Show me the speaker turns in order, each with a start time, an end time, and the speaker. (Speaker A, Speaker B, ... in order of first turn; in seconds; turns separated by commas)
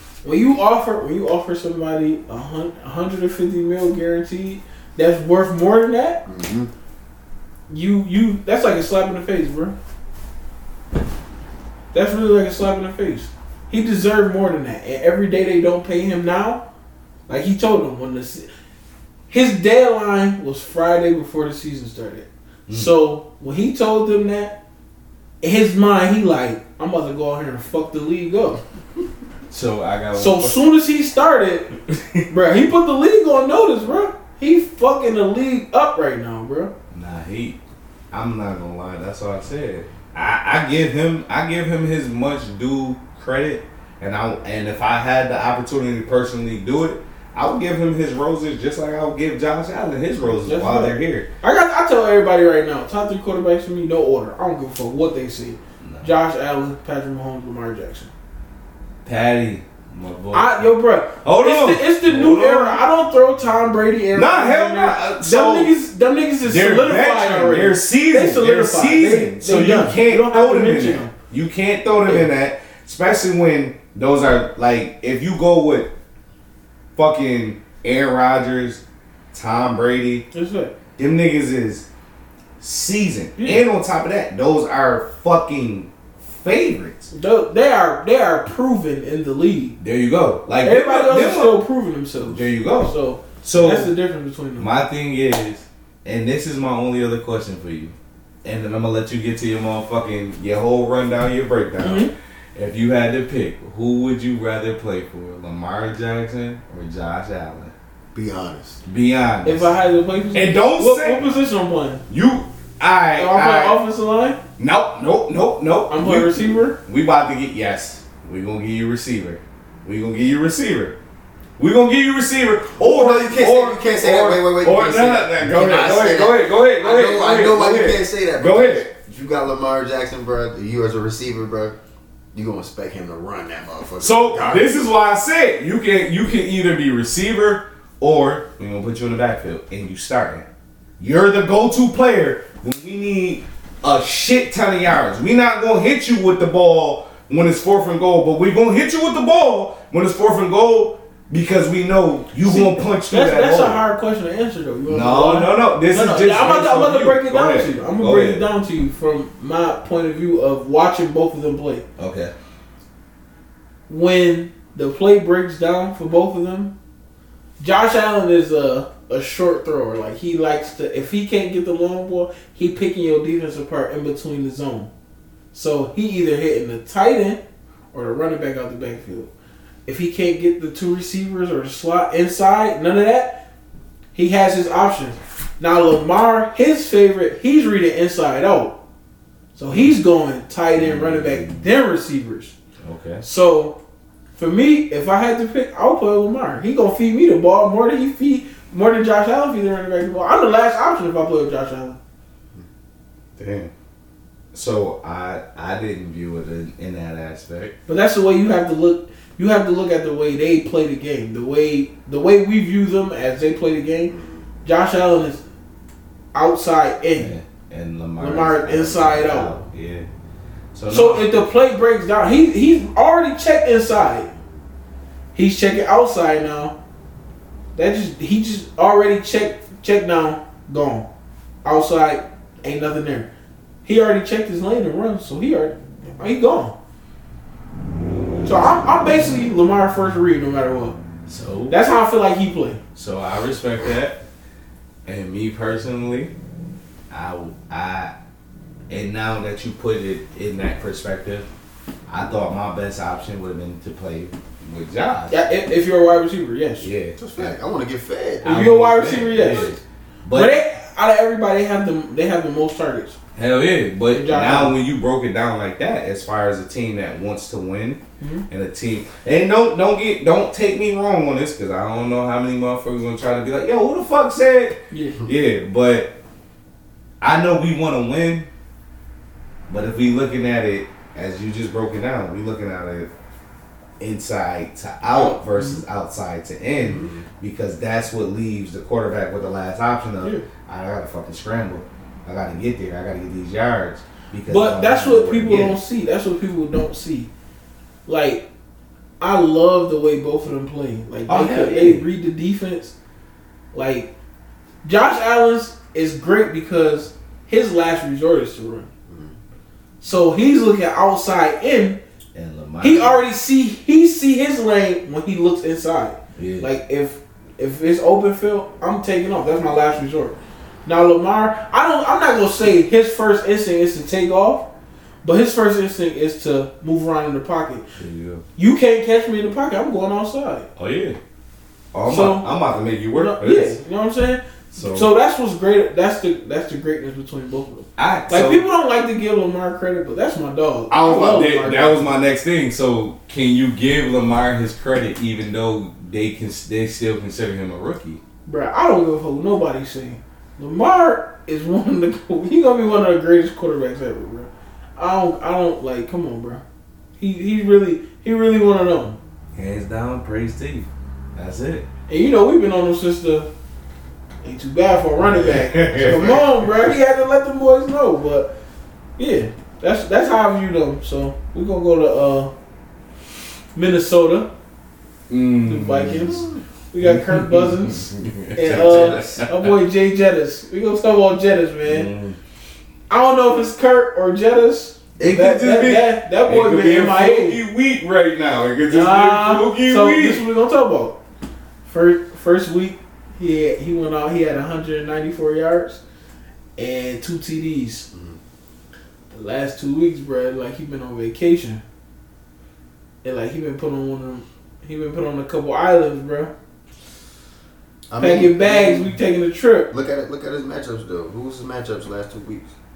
Speaker A: 0.2-6.2, Speaker B: 6.3-6.7, Speaker A: 7.7-9.8, Speaker A: 11.9-16.6, Speaker A: 17.3-18.5, Speaker A: 19.3-24.6, Speaker A: 25.4-28.6, Speaker C: 29.5-30.7, Speaker A: 30.1-31.7, Speaker C: 31.9-32.3, Speaker A: 32.3-36.7, Speaker C: 36.9-37.6, Speaker C: 38.1-51.3, Speaker A: 50.4-58.1, Speaker C: 55.8-56.1, Speaker C: 59.0-60.7, Speaker A: 60.3-71.1, Speaker C: 61.2-62.8, Speaker C: 64.1-65.7, Speaker C: 66.4-75.9, Speaker C: 77.0-78.8, Speaker C: 79.3-80.2, Speaker A: 80.3-80.7, Speaker C: 81.0-81.8, Speaker C: 82.6-87.1, Speaker A: 87.1-89.8, Speaker C: 89.8-91.6, Speaker A: 90.6-94.7, Speaker C: 92.3-93.9, Speaker C: 94.6-107.7, Speaker A: 101.8-102.1, Speaker B: 108.1-108.8, Speaker C: 108.9-109.7, Speaker A: 109.4-112.0, Speaker C: 110.3-111.3, Speaker C: 112.1-113.8, Speaker A: 113.2-114.4, Speaker C: 114.6-121.0, Speaker A: 115.9-116.8, Speaker C: 121.6-128.9, Speaker B: 122.8-131.8, Speaker B: 132.3-134.7, Speaker C: 134.0-140.4, Speaker C: 141.0-153.8, Speaker A: 152.4-161.8, Speaker C: 154.9-158.5, Speaker C: 162.0-162.3, Speaker A: 163.9-166.8, Speaker A: 167.6-174.9, Speaker A: 175.5-177.4, Speaker A: 177.9-179.3, Speaker A: 179.9-183.4, Speaker A: 184.1-188.8, Speaker A: 189.6-192.6, Speaker C: 190.8-191.5, Speaker C: 192.8-193.2, Speaker A: 193.2-193.8, Speaker A: 194.4-202.0, Speaker C: 203.4-203.7, Speaker C: 204.5-207.8, Speaker A: 207.9-215.4, Speaker B: 214.1-214.4, Speaker A: 216.3-217.3, Speaker C: 217.2-220.1, Speaker A: 218.2-219.6, Speaker C: 220.7-221.5, Speaker A: 220.9-224.3, Speaker A: 225.3-226.8, Speaker A: 227.8-231.1, Speaker A: 231.7-233.3, Speaker A: 233.8-236.8, Speaker A: 238.4-241.0, Speaker C: 241.3-241.9, Speaker A: 241.7-242.8, Speaker C: 242.9-244.2, Speaker C: 245.1-246.3, Speaker C: 247.1-248.1, Speaker C: 248.9-251.5, Speaker C: 252.1-255.5, Speaker A: 255.3-256.9, Speaker C: 256.8-257.6, Speaker B: 257.2-258.5, Speaker C: 258.4-260.6, Speaker A: 258.4-259.8, Speaker A: 260.3-263.2, Speaker C: 263.4-276.1, Speaker A: 264.1-264.8, Speaker A: 268.2-268.5, Speaker A: 274.9-275.2, Speaker C: 277.2-278.5, Speaker C: 279.7-283.1, Speaker C: 284.0-295.8, Speaker A: 285.0-285.8, Speaker B: 286.9-287.2, Speaker A: 290.2-290.5, Speaker A: 294.5-297.3, Speaker A: 298.1-298.4, Speaker A: 299.2-302.9, Speaker C: 301.3-302.1, Speaker A: 303.7-304.1, Speaker A: 304.8-308.9, Speaker B: 309.1-309.4, Speaker A: 310.0-312.0, Speaker C: 312.3-313.2, Speaker A: 312.8-324.7, Speaker C: 316.4-316.7, Speaker A: 325.2-327.9, Speaker C: 328.0-328.4, Speaker A: 328.6-330.7, Speaker C: 330.8-331.2, Speaker C: 331.9-333.8, Speaker A: 332.1-332.5, Speaker A: 333.1-342.1, Speaker C: 334.7-335.1, Speaker C: 338.0-338.6, Speaker C: 340.9-348.2, Speaker A: 348.5-356.6, Speaker A: 357.2-359.2, Speaker C: 359.6-361.9, Speaker A: 362.1-363.5, Speaker A: 364.4-368.5, Speaker C: 365.2-366.7, Speaker A: 369.2-372.5, Speaker A: 373.8-374.5, Speaker C: 375.3-379.7, Speaker A: 375.6-382.1, Speaker B: 378.7-379.4, Speaker C: 381.9-382.4, Speaker A: 383.1-387.6, Speaker C: 385.2-390.4, Speaker A: 388.8-391.2, Speaker A: 391.9-396.0, Speaker A: 396.8-398.1, Speaker B: 398.1-398.4, Speaker A: 399.3-401.8, Speaker A: 403.2-406.5, Speaker B: 408.1-409.1, Speaker A: 408.2-409.9, Speaker B: 409.9-412.7